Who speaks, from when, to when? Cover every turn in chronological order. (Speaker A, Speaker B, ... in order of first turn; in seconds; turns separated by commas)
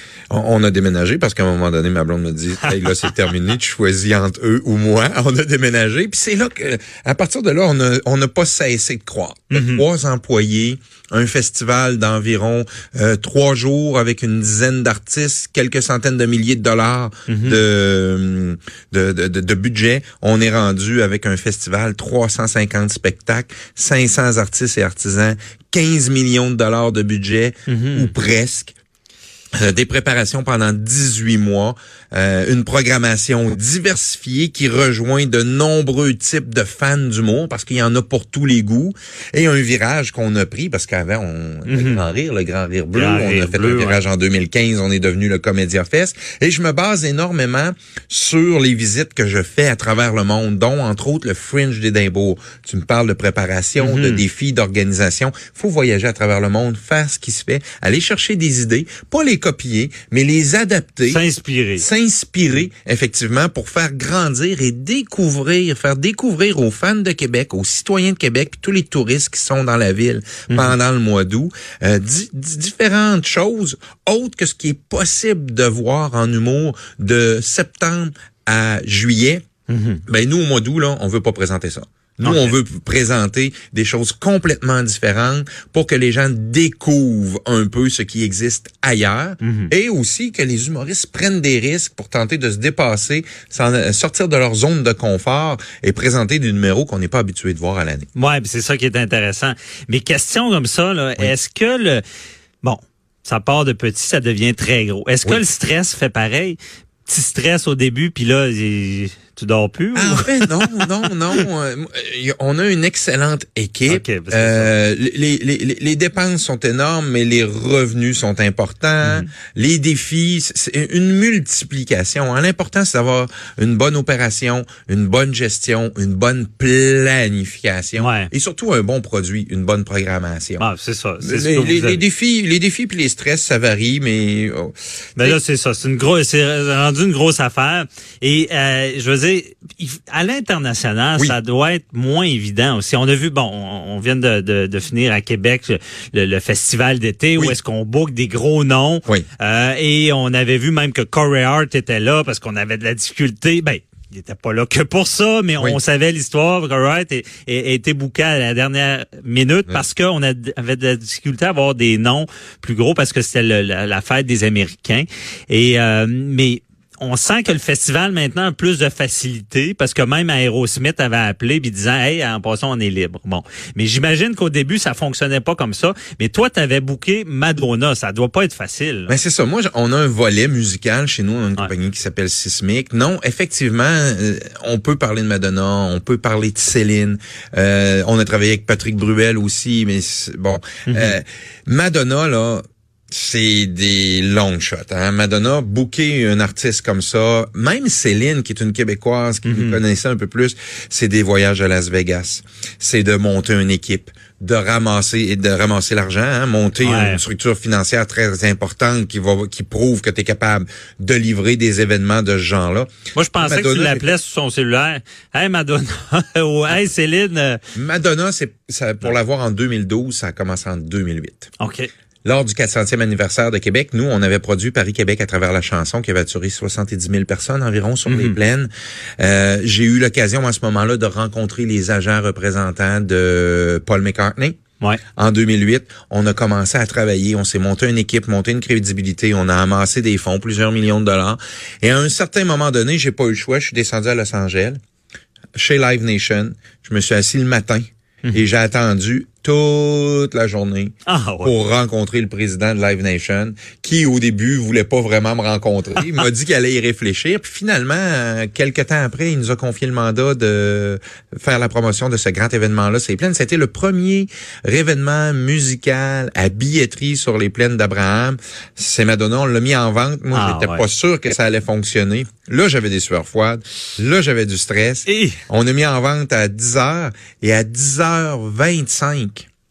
Speaker A: 0.3-28.8, Speaker B: 2.6-3.2, Speaker B: 9.5-9.8, Speaker B: 17.3-17.6, Speaker B: 27.7-28.1, Speaker A: 29.6-61.2, Speaker B: 41.7-42.1, Speaker B: 42.9-44.0, Speaker B: 53.8-54.2, Speaker B: 61.1-61.9, Speaker A: 61.8-79.4, Speaker B: 70.5-70.8, Speaker B: 79.7-80.0, Speaker A: 80.1-98.1, Speaker B: 82.2-82.6, Speaker B: 89.4-89.7, Speaker B: 98.2-102.0, Speaker B: 102.6-110.9, Speaker A: 110.0-130.7, Speaker B: 113.9-114.7, Speaker B: 119.0-119.3, Speaker B: 128.0-128.3, Speaker B: 130.6-132.0, Speaker A: 131.2-135.4, Speaker B: 135.2-179.1, Speaker A: 179.1-214.1, Speaker B: 190.9-191.2, Speaker B: 199.4-199.8, Speaker B: 206.8-207.2, Speaker B: 213.2-217.6, Speaker A: 217.8-221.5, Speaker B: 221.6-221.9, Speaker A: 222.2-234.6, Speaker B: 228.1-228.4, Speaker A: 235.2-244.8, Speaker A: 245.6-279.5, Speaker B: 251.1-251.5, Speaker B: 270.3-270.9, Speaker B: 275.1-275.4